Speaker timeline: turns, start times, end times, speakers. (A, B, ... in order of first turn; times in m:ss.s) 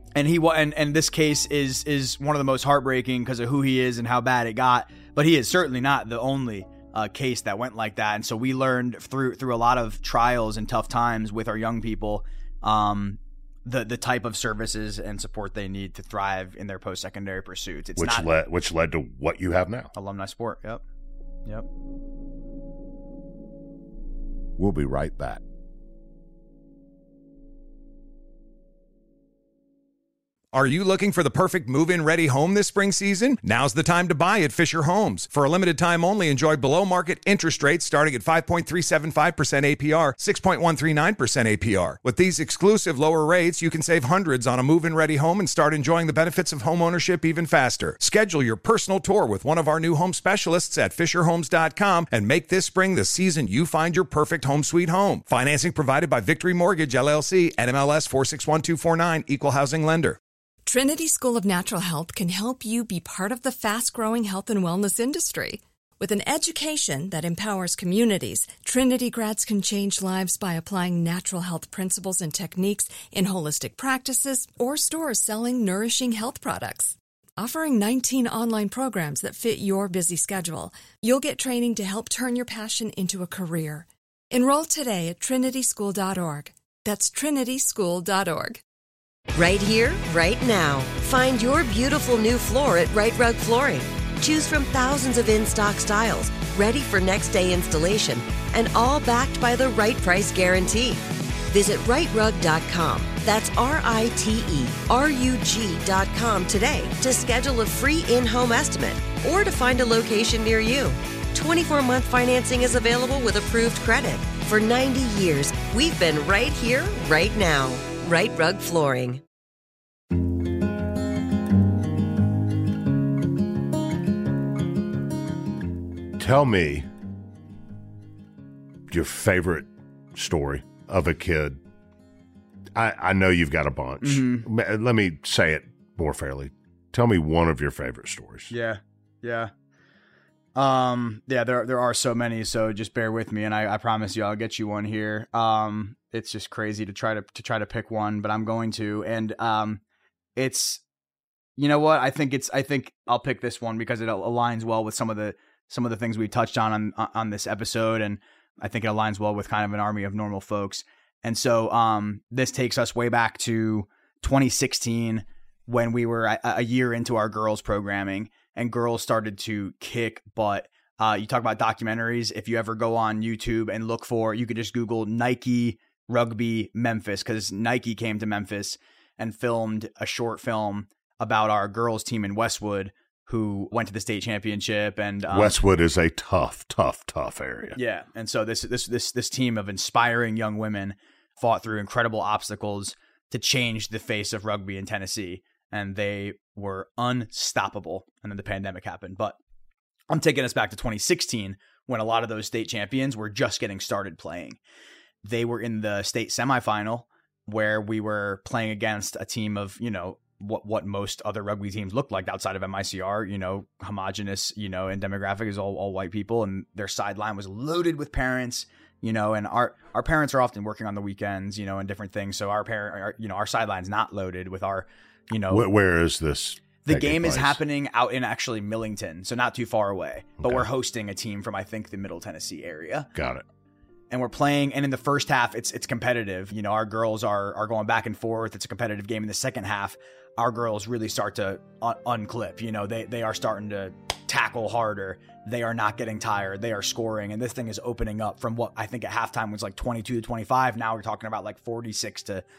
0:00.1-0:18.2 A
0:18.0-0:19.9 B
0:20.0-0:20.8 A
0:24.6-0:25.4 B
0:30.5-1:00.2 C
1:00.6-1:28.6 D
1:29.3-1:59.2 E
2:06.2-2:06.9 B
2:08.9-2:11.6 B
2:12.7-2:18.5 B
2:14.0-2:14.5 A
2:18.5-2:19.5 A
2:20.5-2:29.8 A
2:30.4-2:30.8 A
2:31.6-3:05.5 A
3:05.3-3:07.8 B
3:07.7-3:19.4 A
3:20.1-3:24.6 A
3:25.2-3:45.7 A
3:45.5-3:47.6 B
3:46.8-3:53.1 A
3:50.4-3:50.7 B
3:53.1-3:53.4 B
3:54.1-4:12.4 A